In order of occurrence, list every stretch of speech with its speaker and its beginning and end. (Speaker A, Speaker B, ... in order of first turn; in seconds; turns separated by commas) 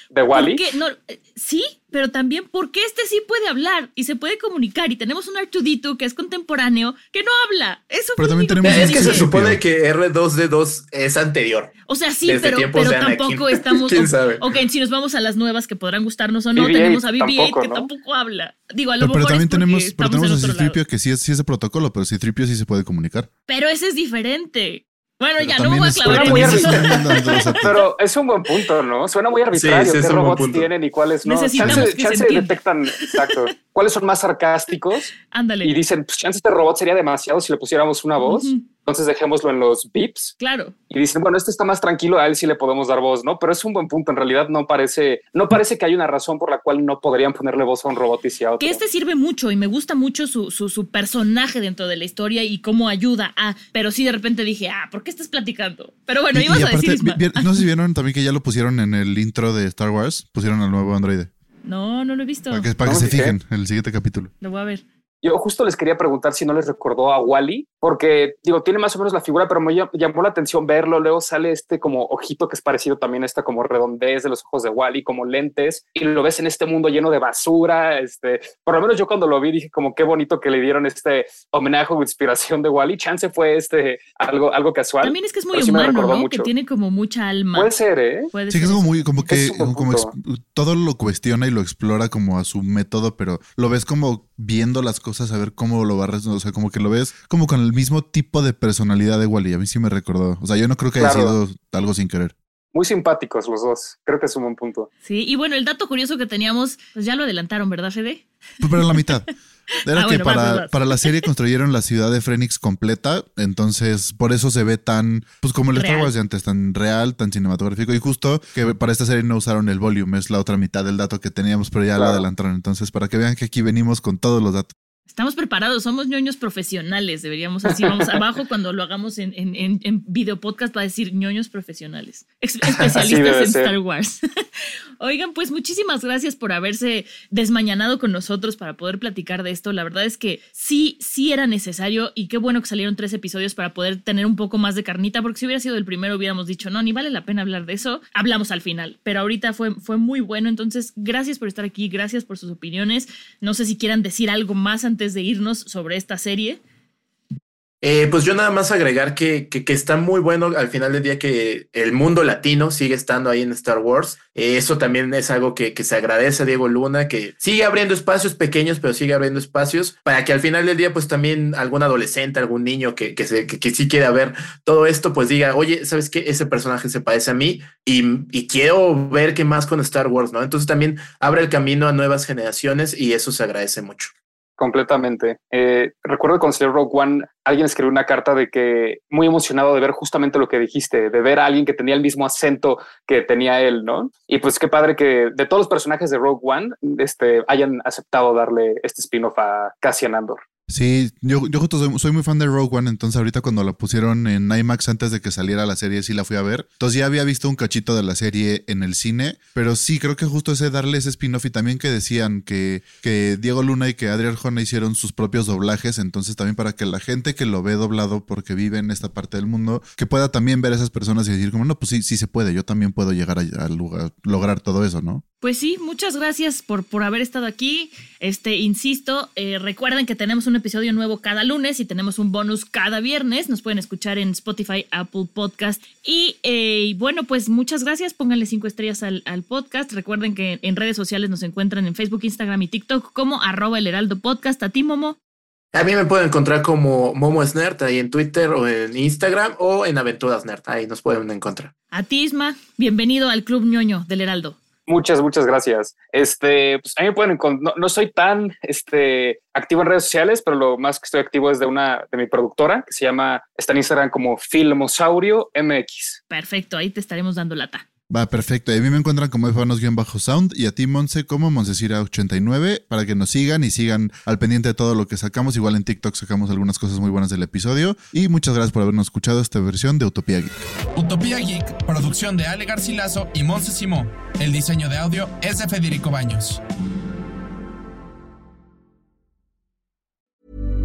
Speaker A: 0.1-0.6, Speaker B: 0.3-9.3, Speaker C: 8.2-9.6, Speaker D: 8.6-11.7, Speaker B: 11.9-20.8, Speaker D: 12.2-14.4, Speaker A: 16.6-17.9, Speaker C: 19.0-23.3, Speaker B: 23.5-27.9, Speaker C: 25.4-27.9, Speaker A: 26.1-35.1, Speaker D: 29.5-30.7, Speaker B: 31.2-33.3, Speaker C: 31.6-31.9, Speaker B: 35.3-35.7, Speaker A: 35.6-40.4, Speaker B: 38.2-38.6, Speaker B: 40.4-40.7, Speaker A: 40.9-48.8, Speaker B: 48.6-57.6, Speaker C: 56.3-61.3, Speaker B: 61.7-62.7, Speaker C: 62.5-64.3, Speaker A: 62.9-63.4, Speaker B: 64.4-64.8, Speaker A: 65.2-86.5, Speaker B: 85.0-87.7, Speaker A: 87.5-88.3, Speaker B: 88.3-88.8, Speaker C: 88.5-102.3, Speaker A: 89.3-90.1, Speaker A: 101.0-101.4, Speaker A: 102.7-104.9, Speaker B: 105.0-108.3, Speaker C: 108.6-109.3, Speaker C: 109.8-124.7, Speaker B: 109.9-111.3, Speaker B: 115.7-116.1, Speaker A: 122.0-122.2, Speaker B: 125.1-134.2, Speaker A: 127.7-128.2, Speaker A: 132.7-133.7, Speaker B: 135.0-156.6, Speaker D: 157.8-184.1, Speaker A: 184.6-200.4, Speaker C: 200.7-225.2, Speaker B: 225.4-245.2, Speaker D: 245.7-251.7, Speaker B: 251.9-254.6, Speaker A: 254.9-266.2, Speaker B: 266.3-267.9, Speaker C: 268.1-280.5, Speaker E: 280.9-286.6